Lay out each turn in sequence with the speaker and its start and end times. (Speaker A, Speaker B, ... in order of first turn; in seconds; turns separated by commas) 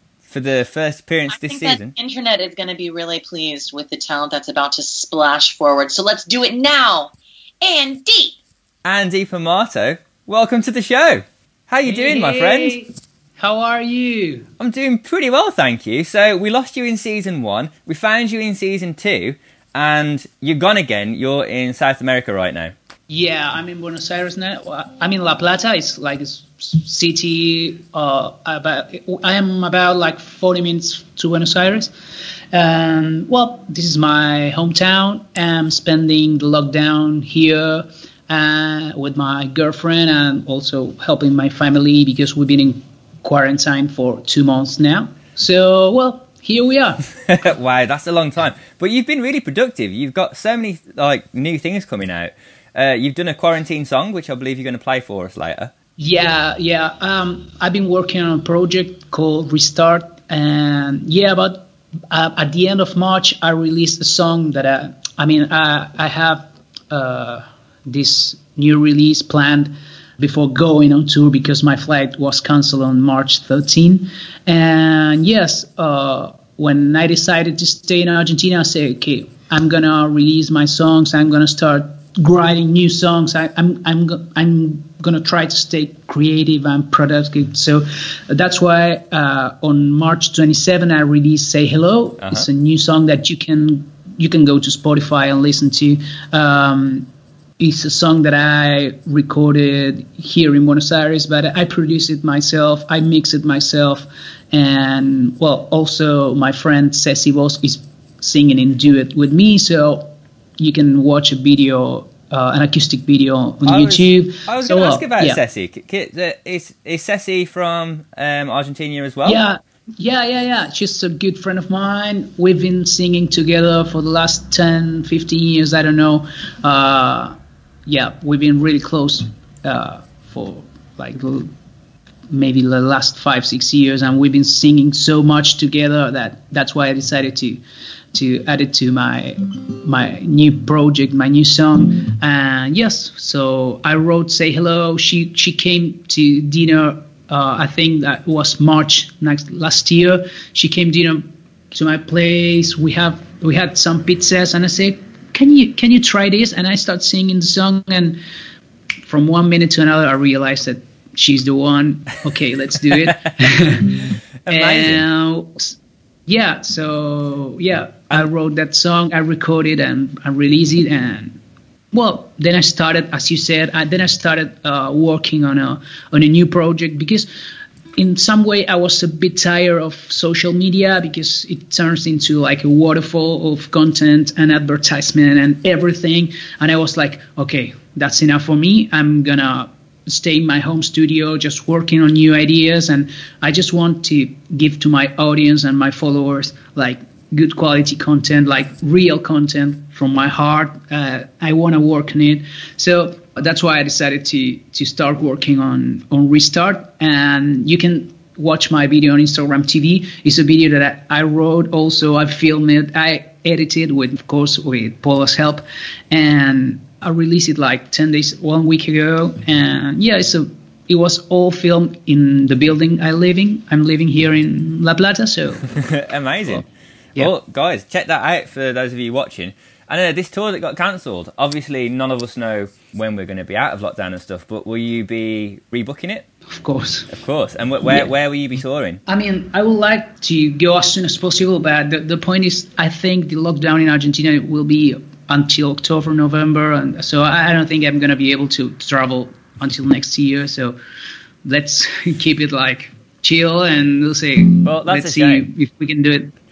Speaker A: 0.3-1.9, Speaker B: 1.3-8.4, Speaker A: 8.8-12.8, Speaker C: 11.8-14.5, Speaker A: 14.6-22.7, Speaker C: 23.1-31.9, Speaker C: 32.5-47.1, Speaker A: 47.3-55.7, Speaker C: 56.0-97.1, Speaker A: 92.2-92.5, Speaker C: 97.6-115.4, Speaker A: 113.6-119.4, Speaker C: 119.2-131.5, Speaker C: 132.3-137.6, Speaker C: 138.1-158.2, Speaker C: 159.0-171.4, Speaker A: 164.4-165.0, Speaker C: 171.9-177.3, Speaker C: 177.9-225.9, Speaker A: 225.8-236.3, Speaker C: 236.5-237.1, Speaker A: 237.1-239.0, Speaker C: 237.8-238.1, Speaker C: 239.1-250.8, Speaker C: 251.4-256.3, Speaker A: 254.6-255.5